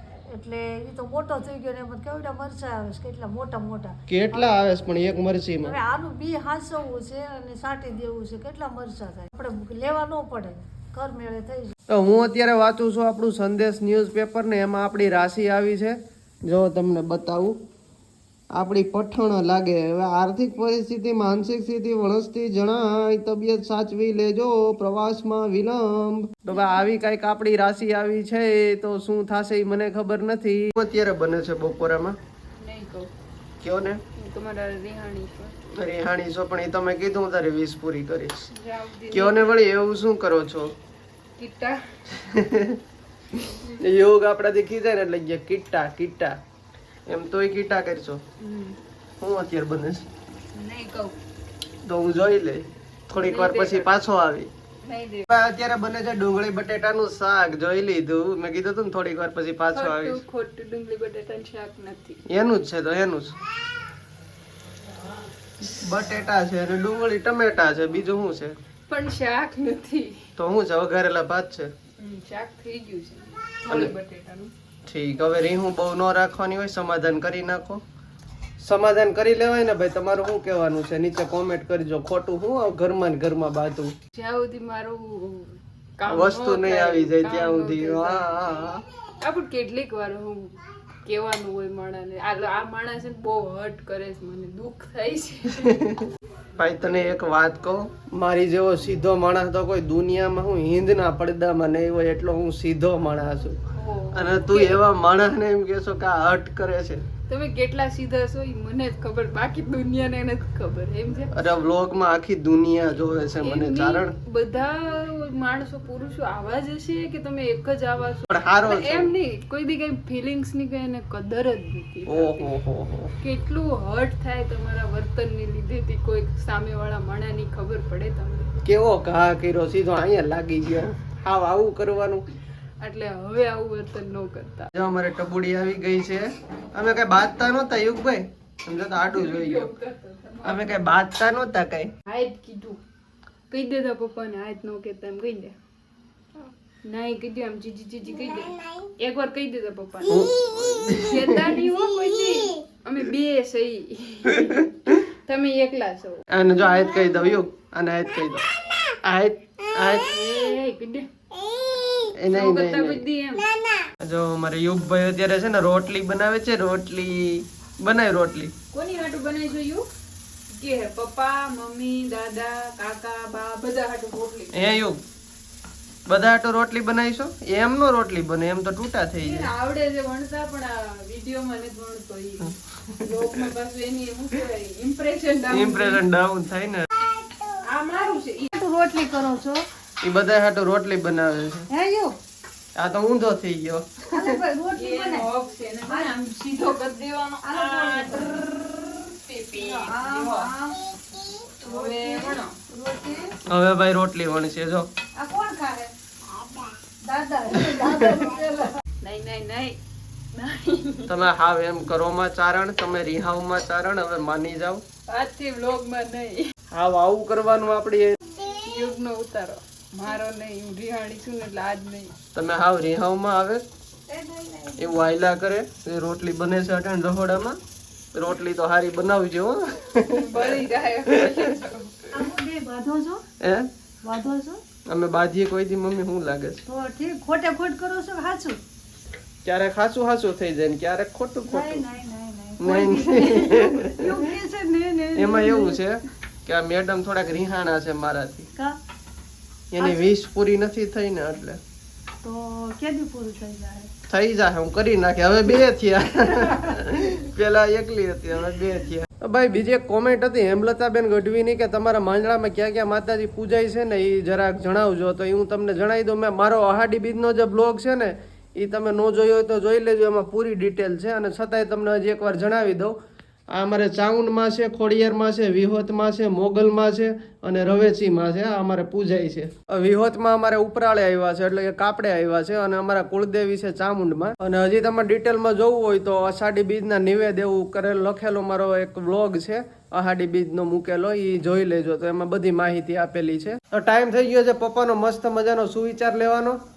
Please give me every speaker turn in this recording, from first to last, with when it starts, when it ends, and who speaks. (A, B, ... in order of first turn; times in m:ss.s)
0:00.3-0:04.6 A
0:04.1-0:05.8 B
0:05.6-0:11.7 A
0:11.9-0:17.6 B
0:18.5-0:32.2 B
0:32.6-0:33.1 C
0:33.6-0:34.0 B
0:34.2-0:35.6 C
0:35.7-0:38.5 B
0:38.5-0:39.7 C
0:39.1-0:40.7 B
0:41.4-0:42.0 C
0:42.1-0:42.8 B
0:43.5-0:43.9 C
0:43.8-0:46.4 B
0:47.1-0:48.2 B
0:48.4-0:48.8 C
0:49.2-0:50.0 B
0:50.5-0:51.2 C
0:51.8-0:54.5 B
0:53.2-0:54.0 C
0:54.8-0:55.3 C
0:55.3-1:00.2 B
0:59.7-1:02.2 C
1:02.3-1:03.4 B
1:05.6-1:08.6 B
1:08.9-1:10.3 C
1:10.4-1:11.7 B
1:12.0-1:14.5 C
1:14.9-1:17.8 B
1:18.6-1:23.9 B
1:24.1-1:28.4 C
1:26.1-1:28.8 B
1:29.2-1:35.8 C
1:35.5-1:43.6 B
1:43.7-1:44.8 C
1:44.1-1:47.0 B
1:47.3-1:51.6 C
1:51.3-1:54.2 B
1:53.4-2:02.5 C
1:58.3-1:59.1 B
2:02.1-2:03.1 B
2:03.2-2:08.5 C
2:08.6-2:12.3 B
2:12.8-2:14.7 C
2:14.7-2:19.7 B
2:19.0-2:20.8 C
2:20.4-2:21.9 B
2:22.1-2:22.8 C
2:23.5-2:25.6 C
2:26.8-2:36.2 C
2:30.1-2:31.5 B
2:34.4-2:34.9 B
2:36.3-2:38.4 B
2:39.0-2:40.1 B
2:40.0-2:41.1 C
2:42.2-2:43.0 B
2:42.3-2:43.5 C
2:44.0-2:48.5 B
2:48.7-2:49.9 C
2:50.5-2:54.7 C
2:54.5-2:55.0 B
2:56.1-2:59.5 B
2:59.2-3:06.0 C
3:02.5-3:03.4 B
3:05.5-3:06.9 B
3:07.6-3:08.5 C
3:08.5-3:09.6 A
3:10.0-3:11.7 B
3:11.7-3:12.2 A
3:12.8-3:14.4 B
3:14.1-3:15.3 A
3:14.8-3:18.6 C
3:15.9-3:16.2 A
3:17.4-3:18.5 A
3:19.3-3:20.5 C
3:19.5-3:23.4 A
3:21.6-3:22.6 C
3:23.5-3:24.9 B
3:25.2-3:25.9 A
3:27.0-3:28.8 A
3:27.9-3:28.2 B
3:29.0-3:29.8 C
3:30.3-3:31.1 C
3:31.1-3:34.8 B
3:35.1-3:36.5 C
3:36.7-3:38.2 B
3:38.4-3:42.1 C
3:42.4-3:43.6 B
3:44.1-3:45.0 A
3:44.8-3:47.6 B
3:48.1-3:50.5 B
3:50.1-3:52.2 C
3:52.1-3:53.2 A
3:53.4-3:53.7 B
3:54.0-3:54.6 A
3:54.9-3:56.6 B
3:56.7-3:58.6 A
3:59.4-4:01.8 B
4:01.4-4:05.8 A
4:02.6-4:04.3 B
4:05.2-4:08.5 B
4:09.7-4:11.6 B
4:09.8-4:10.2 A
4:12.2-4:13.9 A
4:14.1-4:33.0 B
4:16.4-4:16.8 A
4:33.5-4:56.6 B